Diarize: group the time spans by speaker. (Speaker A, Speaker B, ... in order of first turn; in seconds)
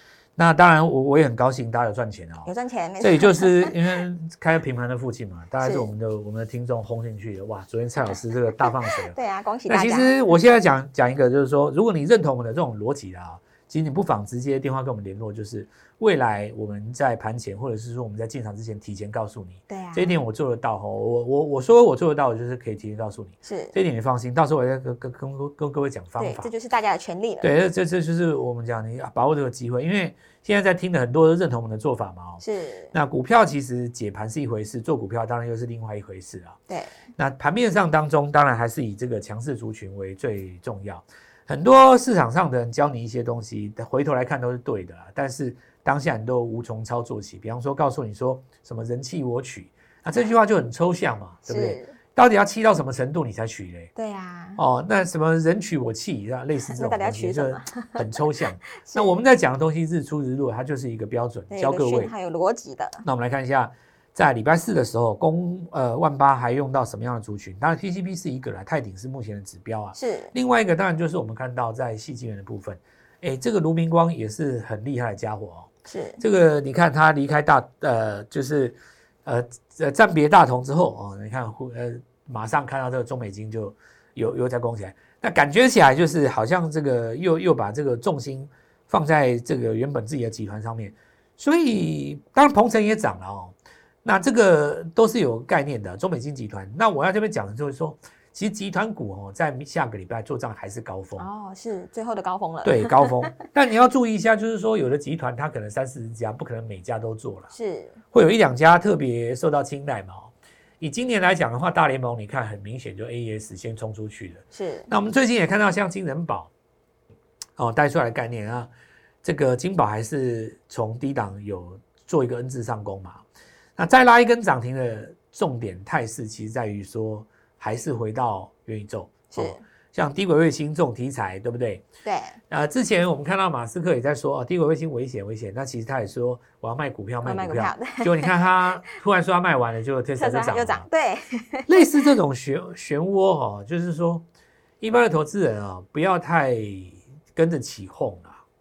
Speaker A: 0.4-2.5, 3.0-9.2, 9.7-26.5, 27.4-32.4, 32.9-36.6, 37.2-53.9, 54.6-62.1, 63.0-101.3, 102.6-107.5, 108.1-116.5, 117.6-118.7, 119.2-123.2, 123.8-131.8, 132.5-140.9, 141.7-144.2, 144.8-148.4
Speaker B: 2.5-3.8, 5.6-5.9, 9.1-10.2, 19.7-20.2, 23.4-23.7, 26.2-27.5, 32.4-32.9, 36.7-37.0, 51.5-52.0, 54.0-54.6, 56.7-58.0, 58.8-59.2, 61.5-63.0, 70.0-70.3, 75.9-76.2, 101.2-103.4, 107.5-108.0, 114.5-114.9, 129.3-129.6, 132.0-132.4, 137.2-138.3, 140.2-141.8